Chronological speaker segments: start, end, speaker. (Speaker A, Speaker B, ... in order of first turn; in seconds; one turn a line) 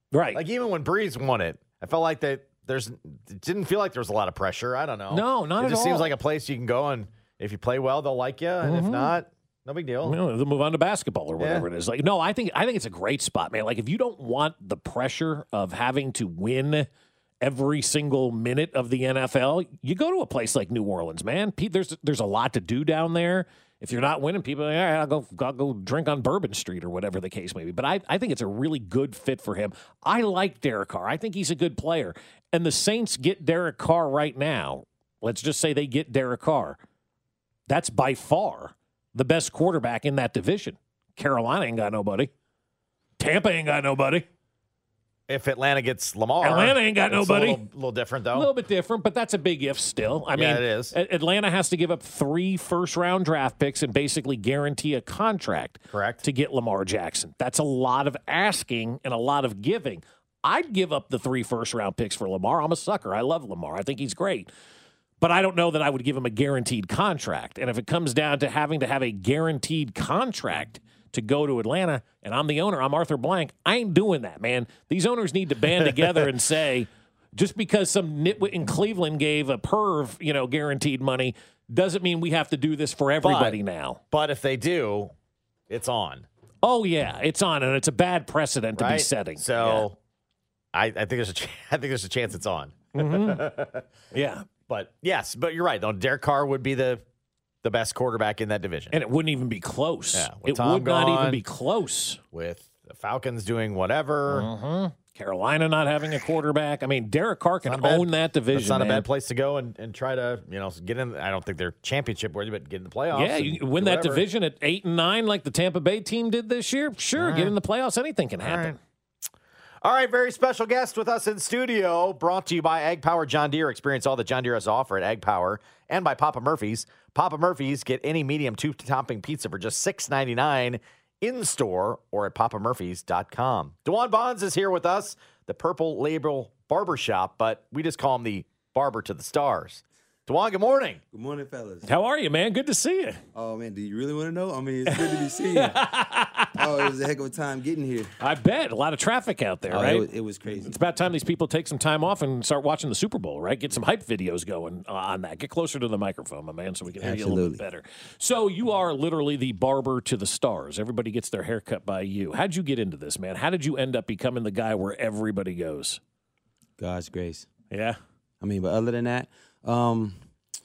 Speaker A: 0.1-0.4
Speaker B: 0.3-10.2
Speaker A: 5.1-6.1
Speaker A: 8.6-9.2
Speaker A: 10.0-16.9
Speaker B: 11.4-11.7
Speaker A: 17.4-36.8
Speaker A: 37.7-42.3
Speaker A: 43.2-44.3
Speaker B: 45.3-48.5
Speaker A: 46.4-47.6
Speaker A: 48.3-64.5
Speaker B: 50.4-51.0
Speaker B: 55.9-56.2
Speaker A: 65.2-84.0
Speaker B: 83.2-83.6
Speaker B: 84.1-85.1
Speaker B: 85.7-86.3
Speaker A: 86.6-89.9
Speaker B: 88.8-90.0
Speaker B: 90.7-93.9
Speaker A: 92.9-93.5
Speaker A: 94.1-94.5
Speaker B: 94.7-97.0
Speaker B: 97.6-99.0
Speaker A: 98.9-102.2
Speaker B: 100.1-101.4
Speaker B: 102.3-104.5
Speaker A: 104.3-109.1
Speaker B: 107.7-114.2
Speaker A: 113.1-118.8
Speaker B: 117.2-117.5
Speaker B: 118.4-118.7
Speaker B: 119.8-141.0
Speaker C: 141.1-141.9
Speaker A: 141.8-143.2
Speaker C: 143.3-145.9
Speaker A: 144.9-146.9
Speaker C: 146.6-148.1
Speaker A: 148.2-166.0
Speaker C: 149.7-150.8
Speaker C: 156.9-157.6
Speaker C: 166.8-167.5
Speaker A: 167.7-168.0
Speaker C: 168.4-170.2